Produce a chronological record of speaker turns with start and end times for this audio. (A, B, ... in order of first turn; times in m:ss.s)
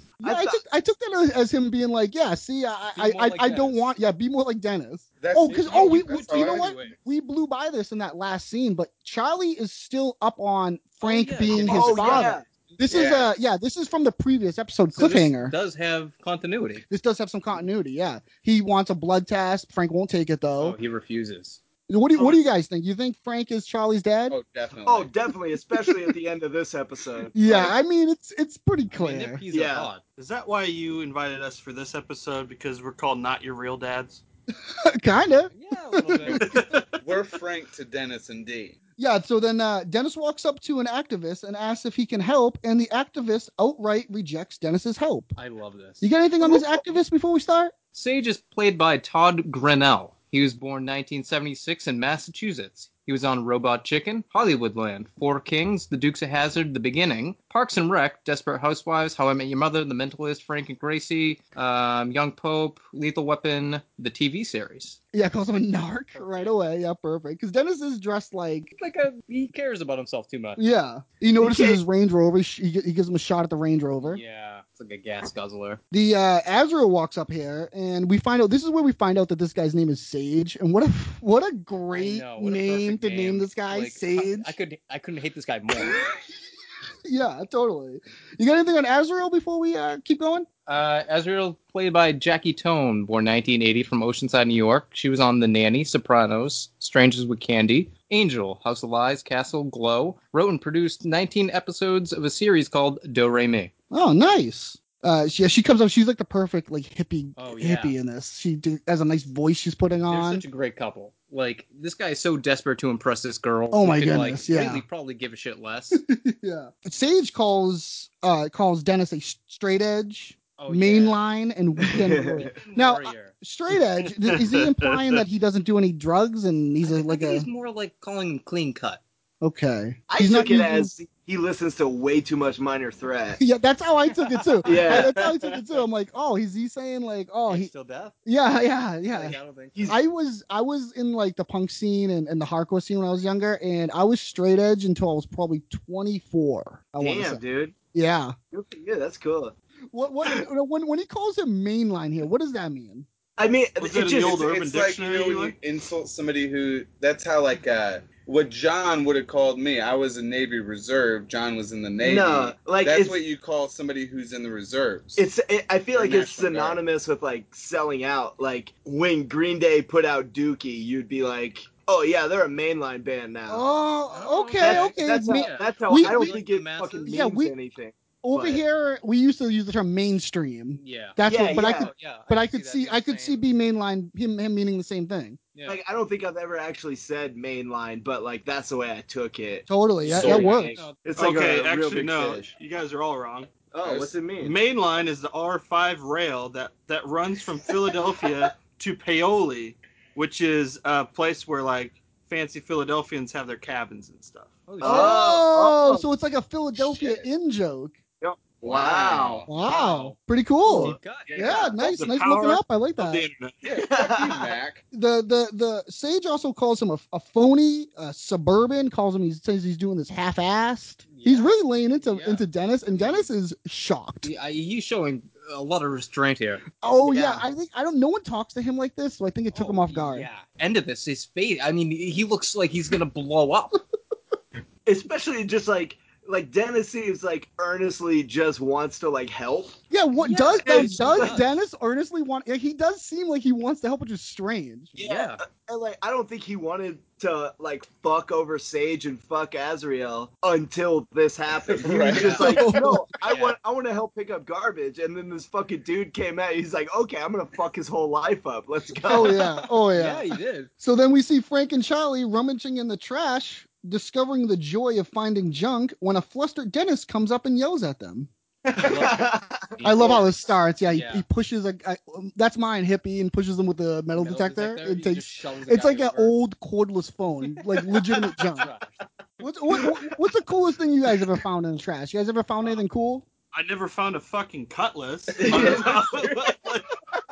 0:00.2-0:15.5 A
0:00.2-0:00.6 B
0:02.9-0:03.9 C
0:05.2-0:06.9 D
0:05.6-0:07.0 C
0:11.0-0:12.4 C
0:11.6-0:12.4 B
0:12.9-0:13.2 D
0:14.9-0:16.8 C
0:16.9-0:20.8 A
0:20.6-0:21.6 C
0:21.9-0:24.4 A
0:24.3-0:25.1 D
0:24.8-0:27.7 B
0:27.3-0:29.4 A
0:28.9-0:30.0 C
0:29.5-0:29.9 B
0:30.2-0:34.2 E
0:34.6-0:36.7 A
0:35.5-0:36.6 C
0:36.2-0:38.8 D
0:39.0-0:45.4 A
0:45.4-0:46.1 C
0:46.0-0:47.7 A
0:47.9-1:05.0 C
1:05.1-1:08.7 A
1:06.1-1:06.6 C
1:08.8-1:10.6 C
1:10.6-1:14.2 A
1:11.4-1:11.8 B
1:14.0-1:15.8 C
1:15.9-1:24.5 A
1:21.9-1:26.0 C
1:27.0-1:30.5 A
1:30.7-1:43.7 C
1:43.9-1:50.4 A
1:47.4-1:48.0 C
1:50.1-1:56.0 C
1:53.7-1:54.8 A
1:55.9-2:07.5 A
2:00.6-2:01.2 C
2:01.8-2:02.5 B
2:02.4-2:03.3 C
2:04.2-2:05.1 E
2:06.8-2:09.0 C
2:09.4-2:10.9 A
2:10.1-2:13.4 B
2:13.4-2:17.7 A
2:14.3-2:14.9 C
2:14.6-2:15.3 B
2:17.5-2:18.1 C
2:18.2-2:19.4 A
2:19.1-2:19.9 C
2:19.9-2:27.4 A
2:27.0-2:27.7 B
2:27.9-2:28.3 A
2:28.5-2:29.5 B
2:29.9-2:33.1 A
2:33.4-2:34.4 B
2:33.8-2:35.5 E
2:34.2-2:45.3 D
2:42.0-2:43.2 B
2:45.2-2:53.6 B
2:46.0-2:46.8 C
2:53.5-2:56.4 A
2:54.1-2:57.2 C
2:54.6-2:58.6 B
2:57.0-2:57.5 A
2:58.2-3:05.4 A
3:00.8-3:01.2 C
3:01.3-3:01.9 B
3:01.8-3:03.4 C
3:05.5-3:05.8 C
3:05.6-3:09.7 B
3:09.7-3:10.8 A
3:10.1-3:10.8 D
3:10.1-3:11.0 C
3:11.0-3:12.5 B
3:11.2-3:24.6 E
3:13.7-3:14.6 B
3:24.7-3:25.1 C
3:24.8-3:28.0 A
3:24.8-3:26.0 B
3:28.2-3:29.4 B
3:28.6-3:29.5 D
3:29.5-3:33.2 A
3:29.6-3:32.0 C
3:31.9-3:33.6 E
3:33.6-3:34.8 D
3:33.9-3:34.5 B
3:34.9-3:44.3 A
3:41.1-3:43.3 C
3:44.2-3:47.4 C
3:46.8-3:50.3 A
3:49.5-3:53.8 C
3:54.8-3:59.8 B
3:59.9-4:05.0 A
4:00.7-4:01.4 B
4:05.0-4:05.4 C
4:05.0-4:19.4 B
4:11.7-4:12.6 D
4:12.2-4:12.6 C
4:12.4-4:13.1 A
4:13.2-4:13.6 C
4:19.0-4:20.3 A
4:19.9-4:20.7 C
4:20.8-4:28.3 A
4:28.7-4:30.2 B
4:28.8-4:30.2 C
4:29.8-4:38.7 A
4:30.9-4:31.2 C
4:34.1-4:36.4 C
4:38.6-4:39.0 C
4:39.4-4:43.2 A
4:43.5-4:46.9 E
4:45.4-4:46.0 B
4:45.5-4:46.0 D